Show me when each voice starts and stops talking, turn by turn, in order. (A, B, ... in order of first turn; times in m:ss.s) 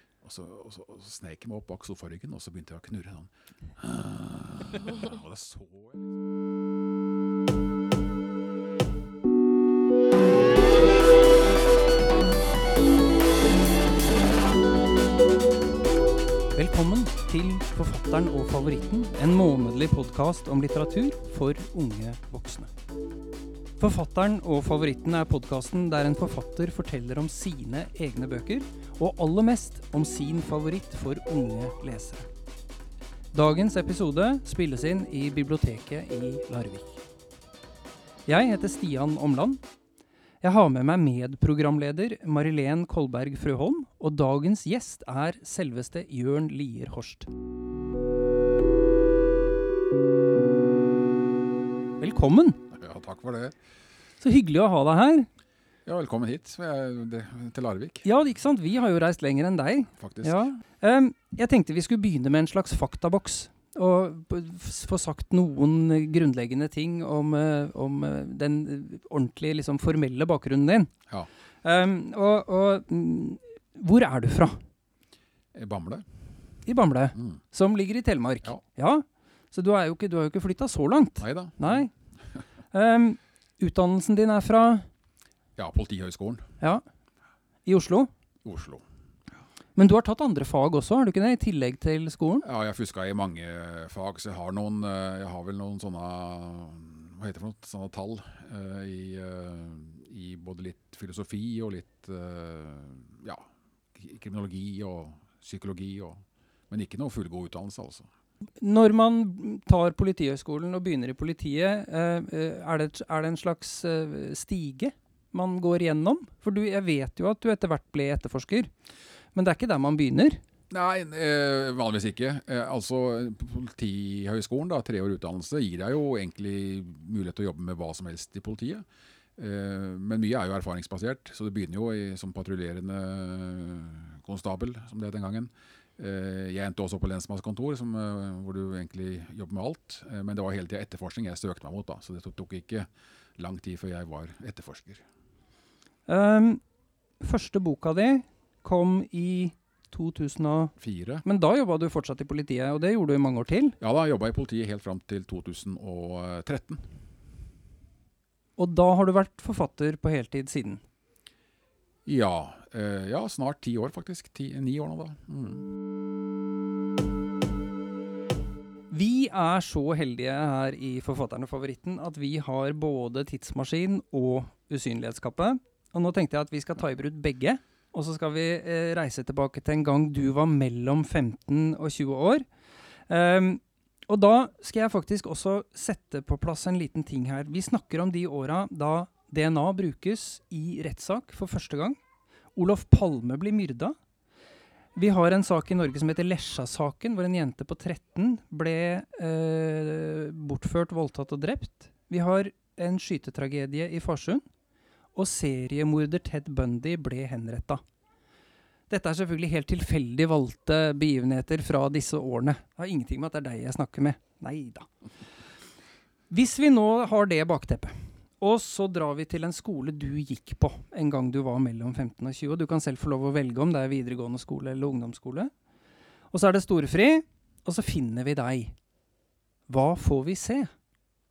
0:00.2-0:06.2 A
0:16.6-0:22.7 B
0:23.8-0:32.3 B
0:33.3-0:37.0 B
0:38.3-0:39.6 B
0:40.4-0:47.3 B
0:52.0-0:52.6 B
0:52.7-0:53.6 A
0:54.2-0:55.3 B
0:55.9-0:58.0 A
0:58.0-1:10.9 B
1:00.0-1:00.4 A
1:11.6-1:14.6 B
1:15.5-1:16.1 A
1:16.7-1:21.9 B
1:17.2-1:17.4 A
1:21.2-1:21.9 A
1:22.7-1:24.9 B
1:25.6-1:26.5 A
1:27.6-1:28.1 B
1:28.4-1:28.8 A
1:29.8-1:32.5 B
1:32.4-1:48.1 A
1:48.6-1:58.7 B
1:59.4-2:00.4 B
2:00.7-2:08.8 A
2:09.4-2:25.0 A
2:26.1-2:26.6 B
2:27.2-2:33.8 B
2:30.8-2:31.2 A
2:33.8-2:37.0 A
2:38.6-2:40.8 B
2:42.1-2:45.7 A
2:48.9-3:02.4 B
3:03.1-3:12.0 B
3:12.6-3:14.0 B
3:15.0-3:24.4 B
3:25.2-3:27.8 B
3:28.9-3:34.9 B
3:36.3-3:45.5 B
3:46.3-3:48.8 B
3:49.7-3:50.7 B